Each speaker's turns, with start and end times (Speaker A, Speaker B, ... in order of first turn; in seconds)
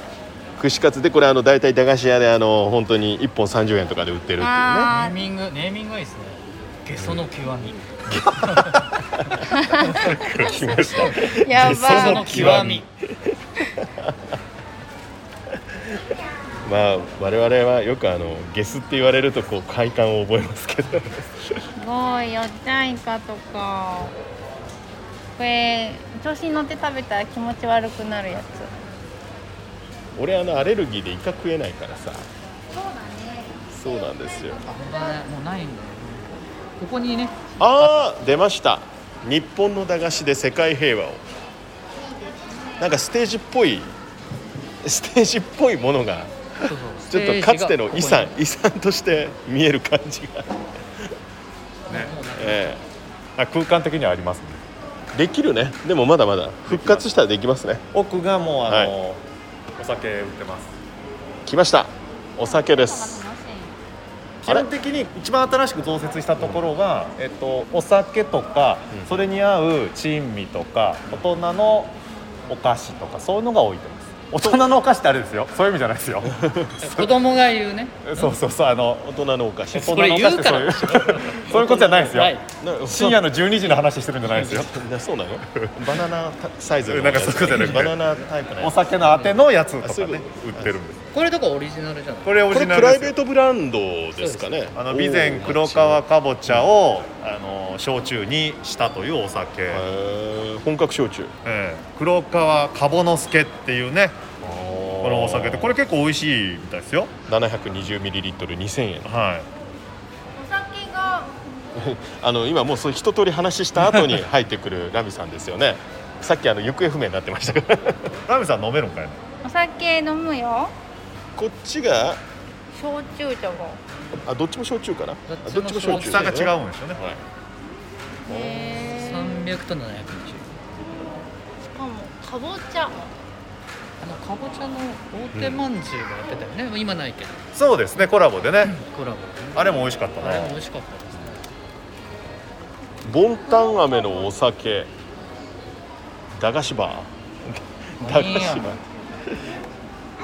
Speaker A: 0.6-4.9, 8.1-8.8, 9.9-14.1, 16.6-21.6, 30.1-32.3, 33.7-34.6, 37.6-41.2, 42.8-43.9, 44.8-50.6, 52.4-52.8, 55.1-57.8, 58.7-58.9, 61.4-63.3, 66.4-66.7, 68.9-69.2, 76.2-76.7, 79.0-80.2, 81.5-81.9, 82.6-83.3, 84.4-88.7, 89.8-90.8, 92.5-96.7, 99.7-101.3, 104.4-105.8, 107.3-109.1, 111.7-118.1, 121.3-122.2, 124.2-127.2, 128.3-128.7, 135.3-135.6, 143.0-144.9, 146.4-149.3
Speaker B: 4.4-5.2, 9.5-12.6, 21.8-24.1, 25.4-28.7, 32.7-35.1, 41.9-42.9, 110.3-111.3, 119.4-120.7, 122.7-123.8, 128.2-129.5, 131.7-133.1, 143.5-144.3
Speaker C: 4.8-7.8, 8.3-8.8, 11.6-12.8, 34.6-37.4, 46.6-48.3, 51.9-52.8, 76.8-78.3, 79.7-82.4, 89.0-89.4, 91.1-92.3, 94.2-94.5, 125.3-126.5, 128.8-130.5, 134.0-137.4, 138.6-141.4, 148.0-148.8
Speaker D: 10.2-12.8, 53.4-54.6, 56.6-57.0, 57.9-59.2, 59.8-60.7, 64.4-71.9, 72.5-76.3, 78.0-79.1, 79.8-82.3, 82.8-84.8, 86.8-88.0, 88.6-91.0, 92.2-93.1, 94.7-99.8, 101.4-104.3, 105.0-107.1, 109.0-109.5, 118.3-119.2, 125.8-127.0, 137.5-138.7, 139.5-140.6